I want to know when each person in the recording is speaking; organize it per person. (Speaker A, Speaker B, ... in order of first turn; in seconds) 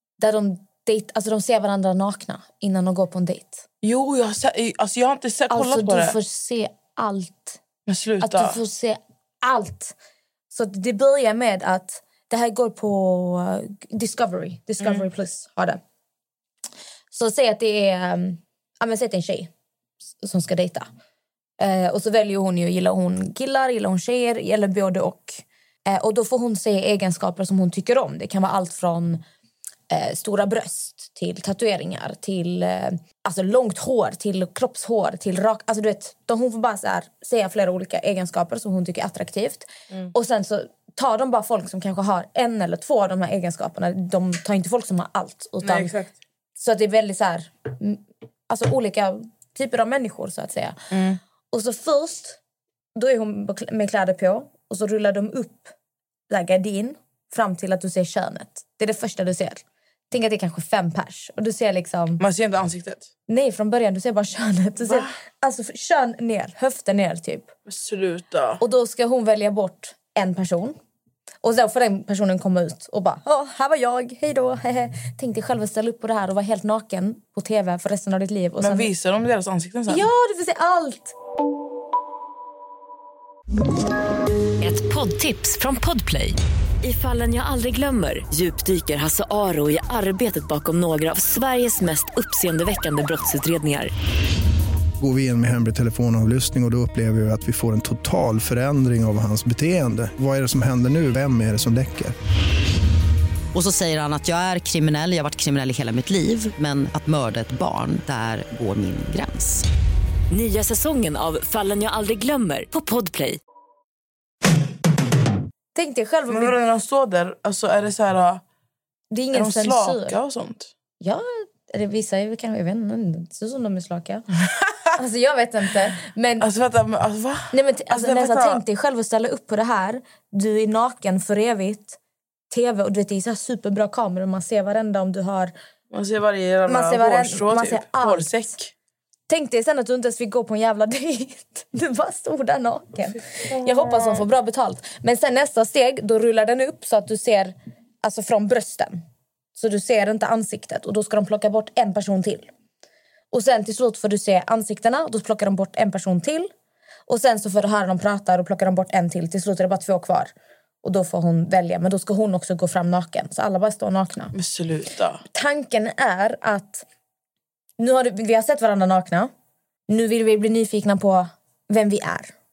Speaker A: 0.2-3.6, 5.5-7.6, 8.2-9.9, 10.5-15.8, 17.1-19.5, 20.2-20.9, 21.6-29.2, 29.9-46.0, 46.6-50.8, 51.5-52.4, 53.0-55.7, 56.3-62.2, 63.3-67.5, 68.6-70.8, 71.4-78.9, 79.9-81.1, 115.8-116.5, 119.1-120.2, 121.0-124.2, 125.0-126.5, 127.5-132.0, 132.5-135.5, 136.7-138.4, 139.3-149.0, 149.6-152.5, 153.3-156.5, 157.1-160.3, 160.8-164.3, 165.3-166.8, 167.8-169.3, 169.9-172.3
Speaker B: 3.8-6.2, 7.9-8.6, 45.6-46.1, 50.9-51.2, 62.2-63.1, 64.8-65.2, 67.7-68.6, 78.6-80.1, 116.3-118.4, 119.3-120.7, 126.4-128.6, 135.9-138.7, 143.4-144.3, 164.3-165.2
Speaker C: 84.6-93.9, 110.3-113.4
Speaker D: 95.0-102.2
Speaker E: 103.5-109.6